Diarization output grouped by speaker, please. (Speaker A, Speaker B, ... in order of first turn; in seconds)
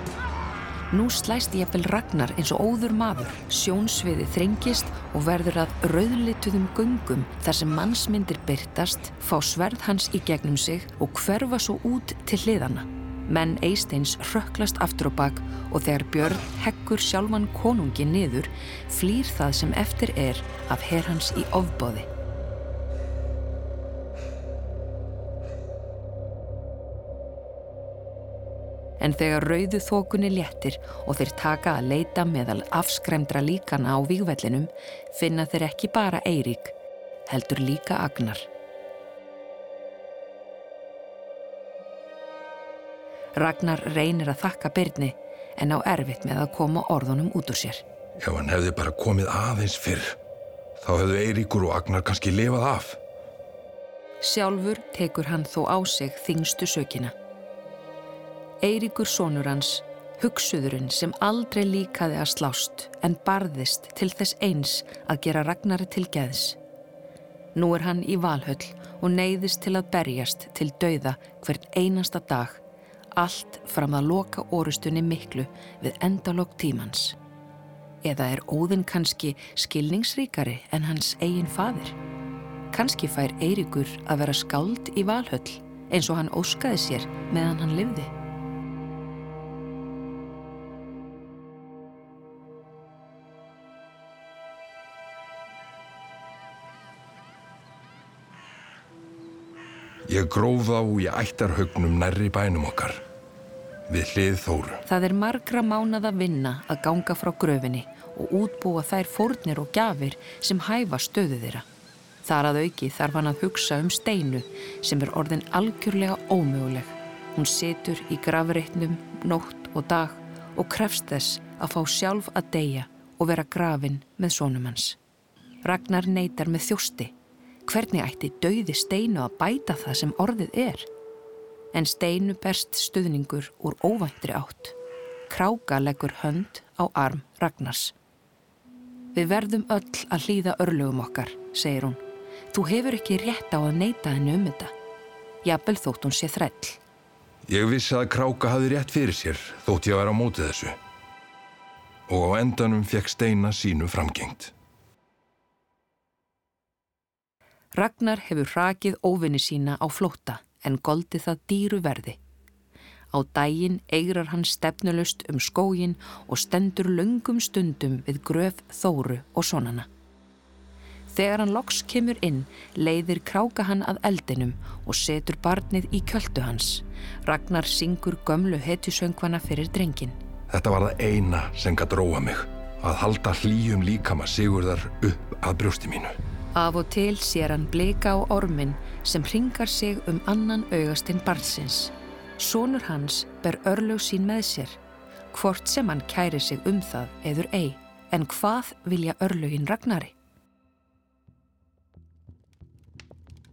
Speaker A: 0.9-22.1, 29.0-36.7, 37.3-38.5, 43.4-47.8, 54.2-57.1, 58.6-66.6, 67.5-72.6, 73.2-77.2, 78.0-82.0, 82.7-88.1, 104.9-111.6, 112.2-125.0, 125.6-127.1, 127.7-130.9, 131.7-134.8, 135.3-137.9, 139.1-144.7, 145.4-146.8, 157.7-162.2, 163.1-169.9, 171.1-180.2, 186.5-194.8, 195.3-200.1
Speaker B: 48.2-50.2, 50.8-53.0, 100.0-103.0, 103.9-104.8, 147.5-150.8, 152.1-154.5, 180.5-186.2